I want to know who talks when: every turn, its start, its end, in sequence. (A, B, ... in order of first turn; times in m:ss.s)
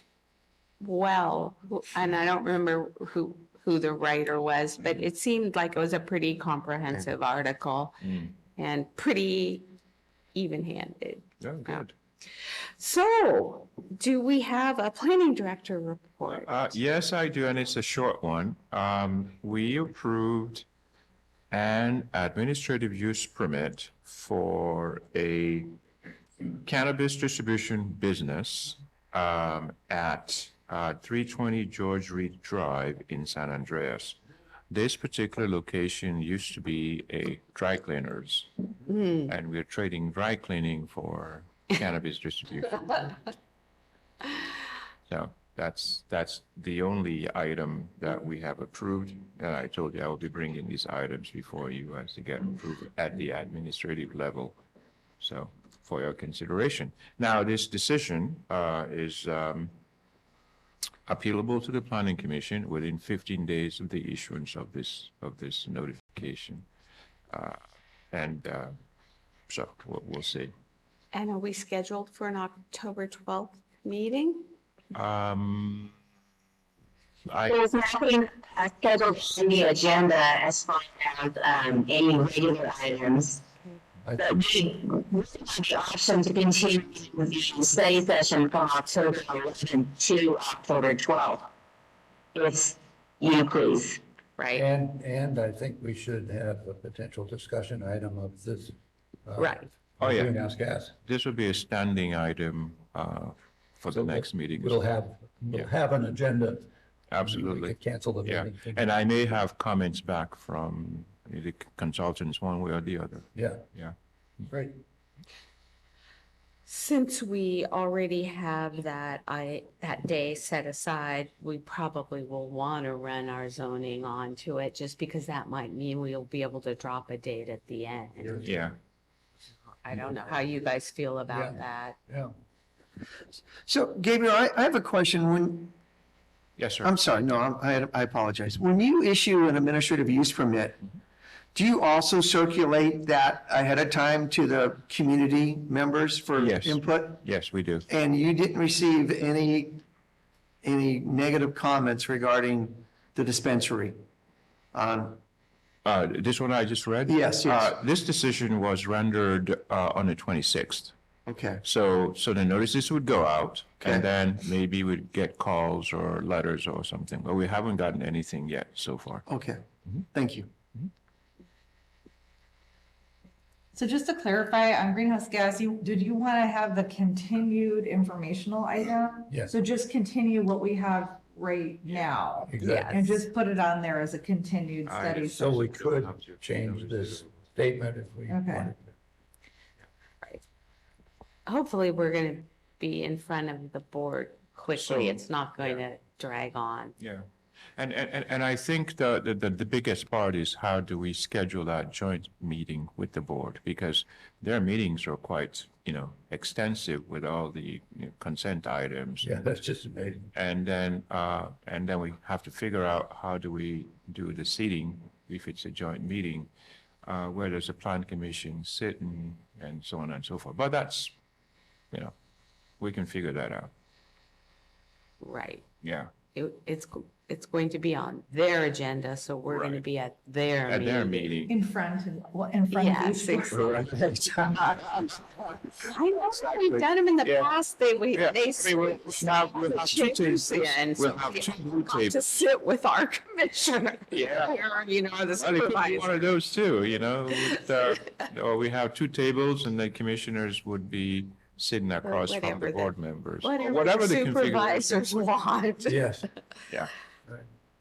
0:00.8-0:09.6 A
0:10.3-0:11.8 A
0:11.4-0:11.9 B
0:12.8-0:16.6 A
0:16.4-0:20.6 B
0:21.5-0:25.7 B
0:26.6-0:34.2 B
0:34.7-0:38.5 B
0:38.8-0:39.3 A
0:39.3-0:43.1 B
0:45.1-0:54.6 B
0:55.2-0:59.7 B
1:01.1-1:06.6 B
1:07.3-1:07.6 B
1:08.1-1:08.7 B
1:09.5-1:10.5 B
1:11.1-1:14.5 A
1:14.9-1:15.9 B
1:17.3-1:17.6 B
1:17.5-1:23.4 C
1:24.0-1:24.4 D
1:24.2-1:31.5 C
1:32.3-1:34.0 C
1:34.4-1:34.6 A
1:34.5-1:38.7 D
1:39.2-1:40.9 D
1:39.4-1:39.7 A
1:40.0-1:40.4 B
1:41.0-1:44.8 B
1:43.9-1:46.7 D
1:47.1-1:53.9 B
1:47.2-1:48.8 D
1:53.3-1:53.6 D
1:56.6-2:08.5 A
2:08.4-2:08.7 B
2:09.8-2:12.0 A
2:11.3-2:12.3 D
2:13.7-2:15.7 E
2:16.6-2:16.9 B
2:16.8-2:20.8 E
2:21.5-2:27.2 E
2:26.3-2:27.8 B
2:27.9-2:29.8 E
2:30.6-2:34.0 E
2:34.7-2:35.2 E
2:35.8-2:40.9 B
2:37.0-2:37.8 E
2:41.2-2:41.6 E
2:41.6-2:49.2 B
2:43.8-2:44.1 E
2:49.3-2:50.5 E
2:53.7-3:05.6 F
3:02.5-3:02.9 D
3:02.6-3:03.2 A
3:04.8-3:07.4 B
3:05.4-3:08.8 D
3:08.3-3:08.7 F
3:11.4-3:16.9 A
3:14.7-3:15.8 B
3:17.0-3:17.2 B
3:17.8-3:29.4 B
3:29.2-3:30.3 D
3:30.3-3:36.5 B
3:37.0-3:41.1 B
3:42.8-3:43.7 B
3:45.2-3:45.6 A
3:45.8-3:46.1 B
3:46.3-3:51.3 A
3:49.5-3:49.8 B
3:50.7-3:51.6 B
3:51.5-3:53.8 F
3:52.7-3:53.8 A
3:53.6-3:55.2 B
3:55.8-4:06.2 A
3:56.4-3:57.5 B
3:58.1-4:02.2 B
4:04.1-4:04.6 B
4:05.3-4:15.2 B
4:07.4-4:07.9 A
4:12.0-4:16.0 A
4:15.9-4:16.2 D